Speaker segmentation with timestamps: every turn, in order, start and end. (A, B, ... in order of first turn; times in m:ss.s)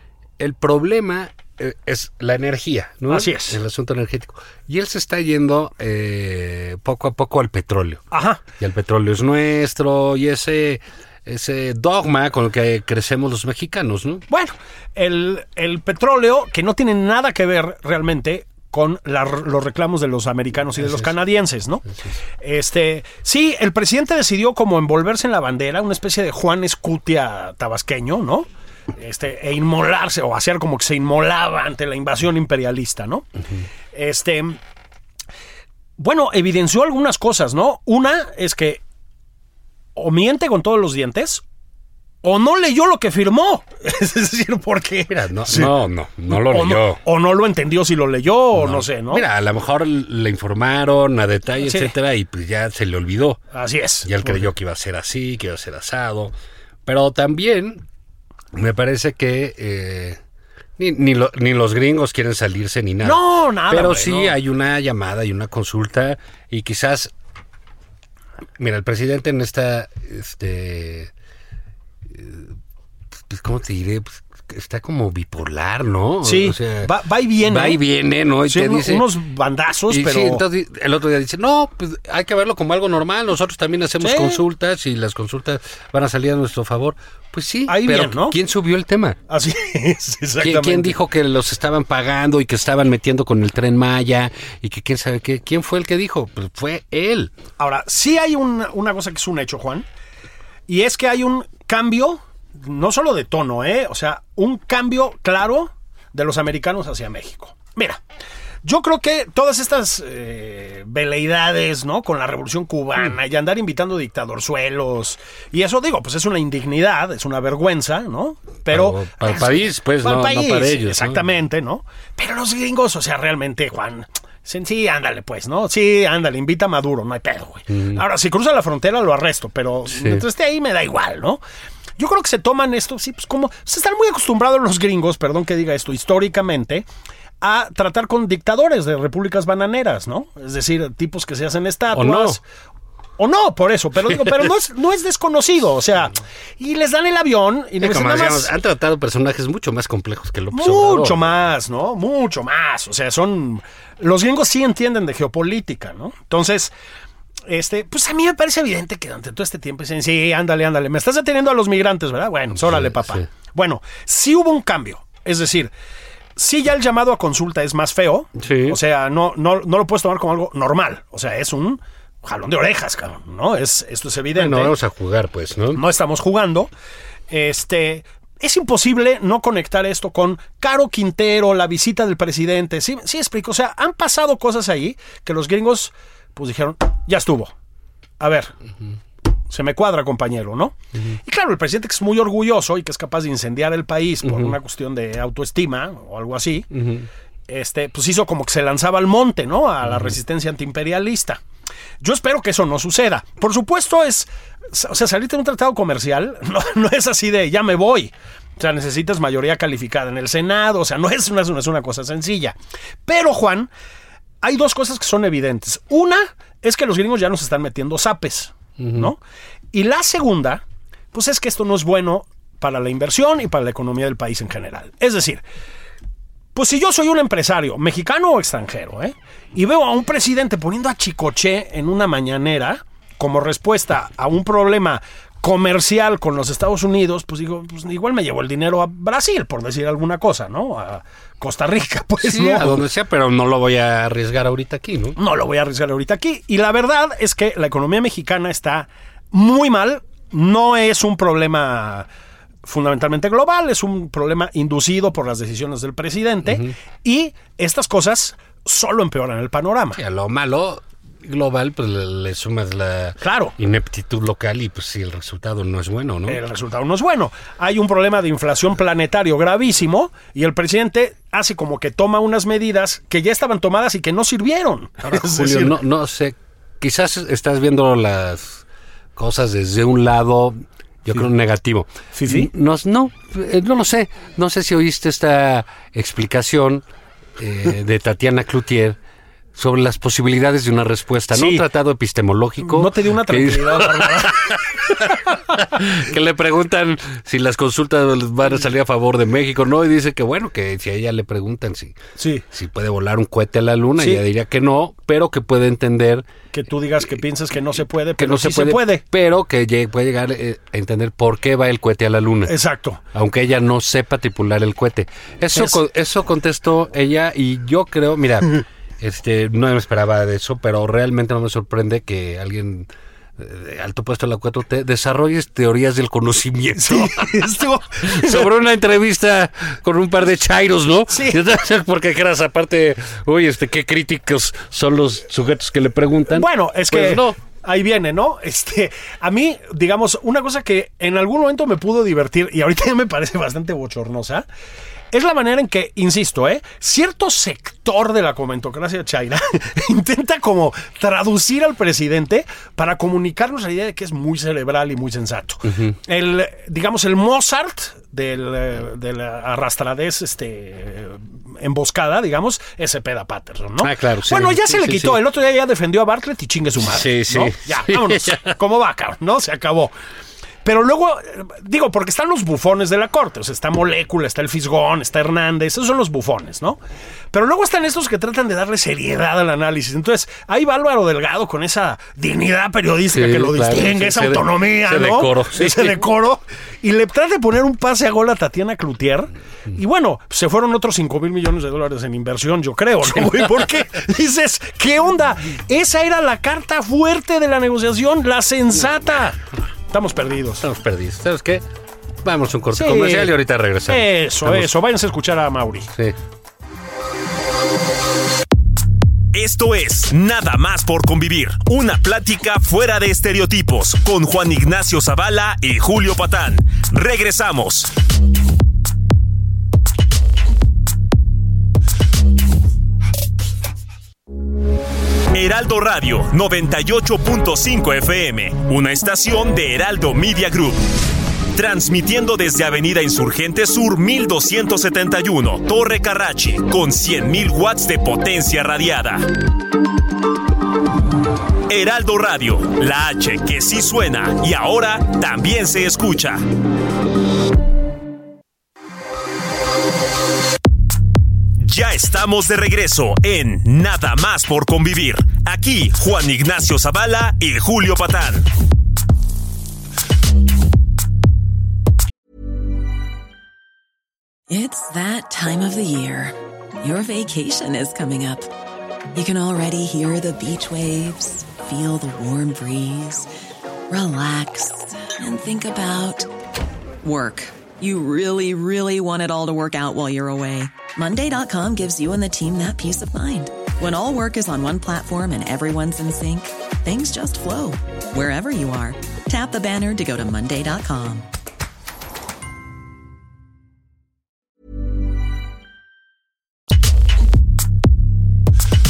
0:00.4-0:08.0 A
0:03.1-0:03.6 B
0:08.1-0:08.4 B
0:08.6-0:14.2 A
0:14.3-0:21.8 B
0:20.8-0:21.1 A
0:22.4-0:33.3 B
0:33.9-0:34.6 B
0:36.0-0:38.8 B
0:40.0-0:41.4 B
0:42.2-0:45.7 B
0:45.1-0:47.0 A
0:46.3-0:49.2 B
0:48.5-0:53.4 A
0:51.6-0:51.9 B
0:53.5-0:54.5 B
0:54.0-0:56.3 A
0:56.9-0:57.8 A
0:58.5-1:00.2 A
1:00.8-1:07.1 A
1:03.0-1:04.4 B
1:08.6-1:11.1 A
1:12.1-1:12.5 A
1:13.3-1:19.1 A
1:16.2-1:17.8 B
1:18.4-1:20.4 B
1:19.9-1:29.2 A
1:24.0-1:24.4 B
1:27.7-1:28.4 B
1:29.3-1:31.0 B
1:30.4-1:37.3 A
1:37.6-1:39.9 B
1:40.7-1:48.0 B
1:48.6-2:11.4 B
1:58.7-2:01.2 A
2:07.7-2:08.0 A
2:09.9-2:10.2 A
2:12.0-2:16.9 B
2:17.4-2:22.4 B
2:21.9-2:22.4 A
2:23.2-2:28.5 B
2:24.1-2:24.4 A
2:27.8-2:31.4 A
2:30.5-2:36.7 B
2:37.5-2:45.7 B
2:42.6-2:43.2 A
2:46.4-2:54.8 B
2:48.4-2:48.8 A
2:54.4-2:55.8 A
2:55.7-2:56.7 B
2:57.3-3:07.5 B
3:08.2-3:08.5 B
3:09.5-3:16.7 B
3:14.2-3:14.6 A
3:16.7-3:17.1 A
3:17.5-3:21.4 B
3:19.8-3:20.2 A
3:22.0-3:33.7 B
3:34.4-3:39.2 B
3:38.8-3:39.1 A
3:39.7-3:45.4 B
3:46.6-4:02.8 B
4:02.2-4:05.2 A
4:05.2-4:12.1 B
4:12.6-4:20.0 B
4:16.5-4:16.7 A
4:20.0-4:26.4 A
4:23.2-4:23.5 B
4:26.3-4:35.8 B
4:35.0-4:38.6 A
4:39.2-4:46.8 A
4:42.1-4:42.5 B
4:47.4-4:49.0 A
4:49.6-5:02.0 A
4:51.3-4:51.6 B
4:52.6-4:55.6 B
5:02.2-5:02.4 B
5:02.5-5:06.3 A
5:04.0-5:04.2 B
5:06.5-5:09.0 B
5:08.2-5:12.6 A
5:12.5-5:13.0 B
5:13.1-5:27.4 A
5:26.8-5:28.5 B
5:28.0-5:37.4 A
5:31.1-5:31.4 B
5:36.3-5:44.5 B
5:45.1-6:09.9 B
5:55.6-5:56.0 A
6:03.8-6:05.2 A
6:06.8-6:08.6 A
6:10.6-6:16.8 B
6:17.3-6:40.6 B
6:23.1-6:26.0 A
6:40.6-6:41.6 A
6:42.2-6:44.7 A
6:42.7-6:43.4 B
6:43.9-6:45.9 B
6:49.3-6:57.9 C
7:05.3-7:10.8 C
7:11.6-7:19.3 C
7:21.7-7:26.4 C
7:31.6-7:38.5 C
7:44.5-7:48.5 D
7:49.2-7:53.3 D
7:53.9-7:56.3 D
7:57.0-8:11.3 D